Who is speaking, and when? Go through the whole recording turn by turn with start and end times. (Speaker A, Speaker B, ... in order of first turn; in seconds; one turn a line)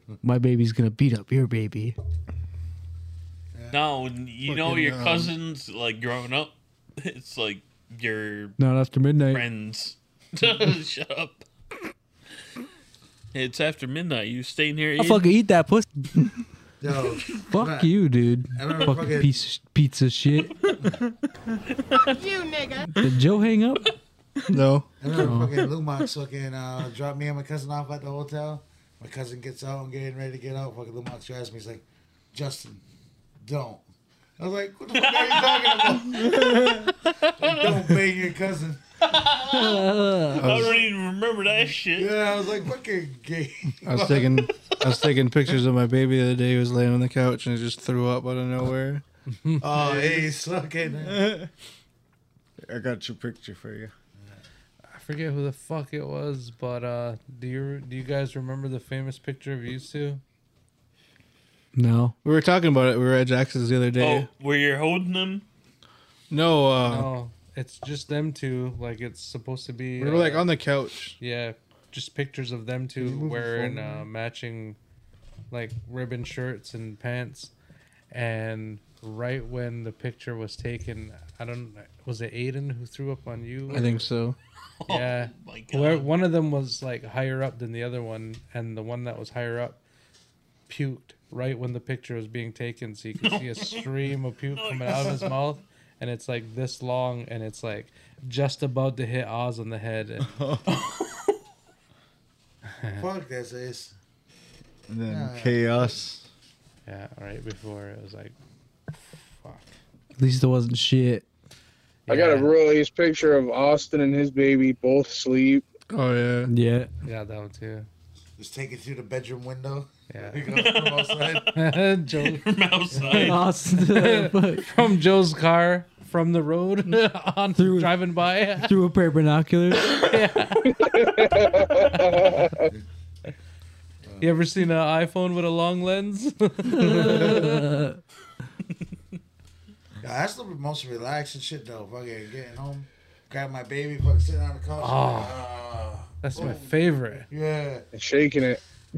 Speaker A: 0.2-1.9
Speaker B: 3.5-3.8
Speaker C: 3.7-8.6
Speaker D: 4.5-5.3
Speaker A: 8.6-9.4
Speaker C: 9.3-11.4
Speaker C: 13.3-15.3
Speaker A: 15.0-16.0
Speaker B: 16.8-17.9
Speaker A: 17.4-20.5
Speaker B: 18.5-19.3
Speaker A: 23.0-23.9
Speaker D: 24.5-24.9
Speaker B: 25.0-32.8
Speaker A: 25.2-25.5
Speaker B: 33.4-33.8
Speaker B: 34.4-36.4
Speaker C: 34.9-38.0
Speaker E: 36.3-36.7
Speaker B: 37.4-38.8
Speaker C: 39.0-42.2
Speaker A: 39.5-40.4
Speaker D: 40.4-40.8
Speaker B: 41.9-44.5
Speaker D: 43.8-49.0
Speaker F: 49.4-49.8
Speaker B: 49.6-51.3
Speaker E: 51.0-51.5
Speaker E: 52.6-53.9
Speaker F: 54.9-60.2
Speaker A: 61.7-62.1
Speaker D: 62.2-64.3
Speaker C: 64.0-65.5
Speaker D: 66.3-67.2
Speaker F: 66.8-70.5
Speaker D: 70.0-71.2
Speaker F: 71.2-74.8
Speaker D: 73.0-74.0
Speaker F: 75.5-77.5
Speaker F: 78.1-84.1
Speaker D: 83.7-84.3
Speaker C: 84.8-86.1
Speaker F: 84.8-89.8
Speaker F: 90.7-100.4
Speaker C: 93.2-93.8
Speaker C: 94.5-95.3
Speaker E: 100.2-100.7
Speaker C: 100.7-101.2
Speaker F: 102.8-103.1
Speaker B: 103.0-103.9
Speaker E: 104.9-106.3
Speaker B: 105.1-105.9
Speaker F: 106.8-108.3
Speaker F: 109.1-109.7
Speaker A: 110.2-111.2
Speaker F: 112.1-112.5
Speaker G: 112.1-115.6
Speaker D: 115.9-116.5
Speaker A: 116.5-116.9
Speaker F: 117.0-117.9
Speaker B: 118.4-121.5
Speaker F: 120.1-120.5
Speaker C: 120.5-123.4
Speaker F: 121.5-122.4
Speaker B: 122.9-123.3
Speaker A: 123.1-124.7
Speaker F: 123.6-128.8
Speaker A: 127.6-127.9
Speaker A: 128.6-129.9
Speaker F: 129.9-130.9
Speaker G: 130.7-132.7
Speaker F: 131.8-132.5
Speaker B: 134.0-134.3
Speaker F: 134.2-137.6
Speaker A: 136.7-137.9
Speaker B: 140.0-147.8
Speaker F: 144.8-145.4
Speaker F: 146.2-147.3
Speaker G: 147.9-148.6